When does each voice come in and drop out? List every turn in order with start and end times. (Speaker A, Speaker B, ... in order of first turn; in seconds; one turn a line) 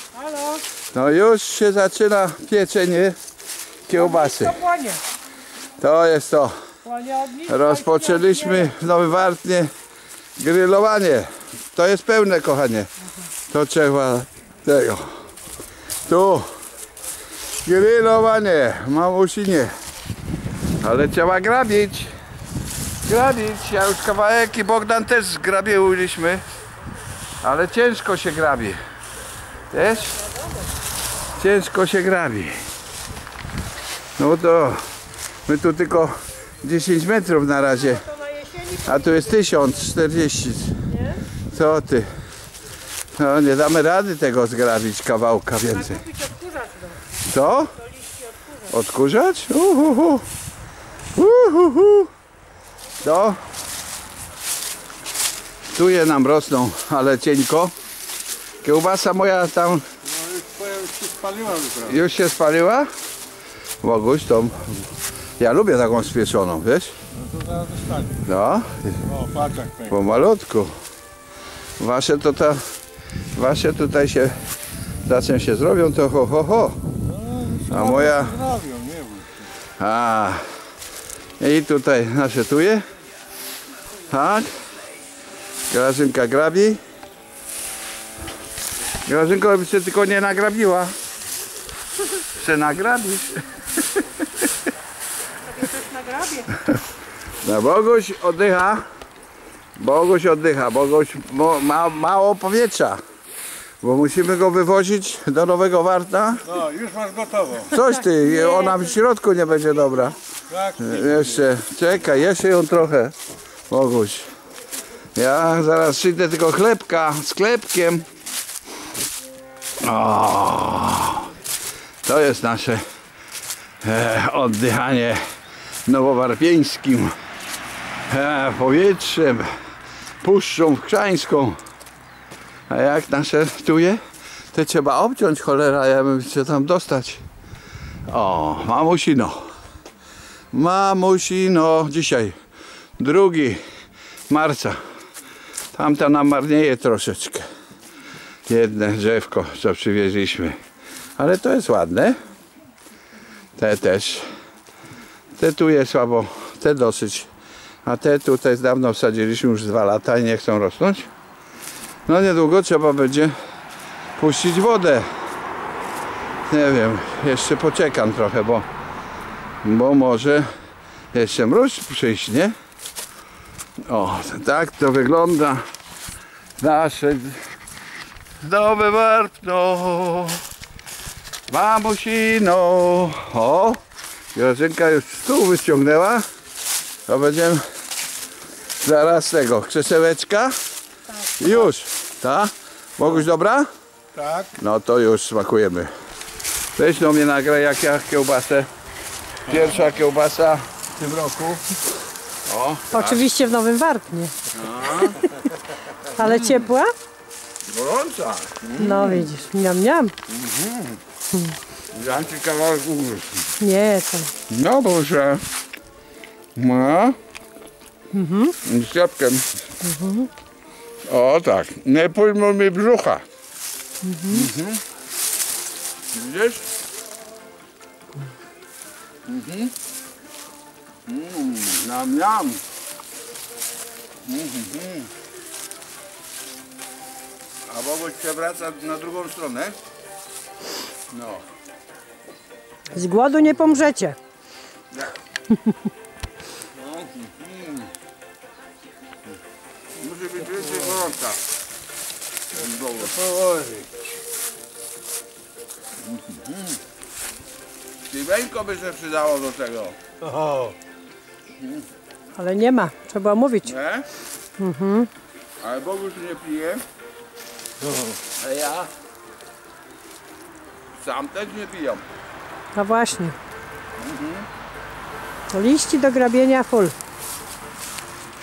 Speaker A: 0.1-0.6
Speaker B: 0.9-3.2
Speaker B: 3.9-4.6
Speaker A: 3.9-5.0
Speaker B: 5.8-6.5
Speaker A: 6.8-8.7
Speaker B: 7.4-9.7
Speaker B: 10.4-12.9
Speaker B: 13.5-15.1
Speaker B: 16.0-16.5
Speaker B: 17.6-19.7
Speaker B: 20.8-22.1
Speaker B: 23.0-26.4
Speaker B: 27.4-28.8
Speaker B: 29.7-30.2
Speaker B: 31.4-32.6
Speaker B: 34.2-34.8
Speaker B: 35.5-38.1
Speaker A: 38.3-38.6
Speaker B: 38.7-40.8
Speaker B: 41.5-42.1
Speaker B: 43.1-46.1
Speaker A: 46.1-47.0
Speaker B: 47.2-47.8
Speaker B: 48.6-50.2
Speaker B: 51.1-52.1
Speaker B: 53.0-53.4
Speaker B: 55.7-57.7
Speaker B: 58.6-59.8
Speaker C: 60.1-61.9
Speaker B: 61.8-62.9
Speaker B: 63.8-66.9
Speaker C: 67.2-68.2
Speaker B: 68.2-69.0
Speaker C: 69.1-69.9
Speaker B: 69.9-70.7
Speaker B: 71.8-72.6
Speaker B: 73.3-74.3
Speaker B: 75.0-76.8
Speaker C: 77.1-79.4
Speaker B: 77.7-78.4
Speaker B: 79.8-80.4
Speaker B: 81.4-82.8
Speaker B: 84.1-84.5
Speaker B: 85.7-86.8
Speaker B: 89.0-90.9
Speaker B: 92.3-94.0
Speaker A: 95.8-96.5
Speaker B: 97.4-98.8
Speaker B: 99.8-103.0
Speaker B: 103.8-106.5
Speaker C: 106.5-107.7
Speaker B: 107.7-110.2
Speaker A: 107.8-108.9
Speaker C: 110.5-111.2
Speaker B: 110.8-113.1
Speaker B: 113.7-114.2
Speaker B: 115.1-118.0
Speaker B: 119.8-121.3
Speaker B: 122.0-122.8
Speaker B: 123.8-125.2
Speaker B: 125.8-127.1
Speaker B: 128.1-129.5
Speaker B: 130.2-131.6
Speaker B: 132.7-134.0
Speaker B: 134.5-137.2
Speaker B: 138.1-139.5
Speaker B: 140.5-142.3
Speaker B: 143.0-143.6
Speaker B: 144.3-144.8
Speaker B: 145.7-147.4
Speaker B: 148.5-150.6
Speaker B: 151.2-152.2
Speaker B: 153.6-154.2
Speaker B: 155.4-157.3
Speaker B: 157.8-161.1
Speaker B: 162.1-163.3
Speaker B: 164.2-165.1
Speaker B: 166.5-168.7
Speaker B: 169.6-170.5
Speaker B: 171.1-172.5
Speaker B: 173.9-175.6
Speaker B: 176.6-177.4
Speaker B: 178.4-180.4
Speaker B: 181.5-183.8
Speaker B: 184.3-186.2
Speaker B: 187.1-187.6
Speaker B: 188.8-190.6
Speaker B: 191.4-193.7
Speaker C: 194.2-194.5
Speaker B: 194.5-195.9
Speaker B: 196.8-198.7
Speaker B: 199.4-201.7
Speaker B: 202.5-203.3
Speaker A: 202.9-204.3
Speaker B: 204.5-205.2
Speaker A: 206.2-206.9
Speaker B: 206.2-206.6
Speaker B: 207.7-209.3
Speaker A: 208.7-210.1
Speaker B: 210.3-211.0
Speaker B: 211.9-213.5
Speaker A: 213.6-214.3
Speaker B: 214.5-215.4
Speaker B: 216.6-217.2
Speaker A: 218.1-218.6
Speaker B: 218.6-219.5
Speaker A: 219.8-220.3
Speaker B: 221.1-223.2
Speaker A: 224.0-224.5
Speaker B: 224.3-224.8
Speaker B: 226.1-226.6
Speaker B: 229.2-229.7
Speaker B: 231.1-232.6
Speaker B: 234.2-235.1
Speaker B: 237.7-239.8
Speaker B: 241.1-241.4
Speaker A: 242.9-244.2
Speaker B: 246.8-247.9
Speaker B: 250.0-251.4
Speaker B: 252.6-253.2
Speaker C: 253.2-253.9
Speaker B: 256.1-256.8
Speaker B: 258.1-260.0
Speaker C: 260.2-260.7
Speaker A: 262.4-263.7
Speaker B: 263.6-264.1
Speaker A: 264.6-265.1
Speaker B: 265.6-266.8
Speaker B: 268.4-268.9
Speaker B: 270.9-272.0
Speaker A: 272.7-273.4
Speaker B: 274.0-274.5
Speaker A: 275.5-276.9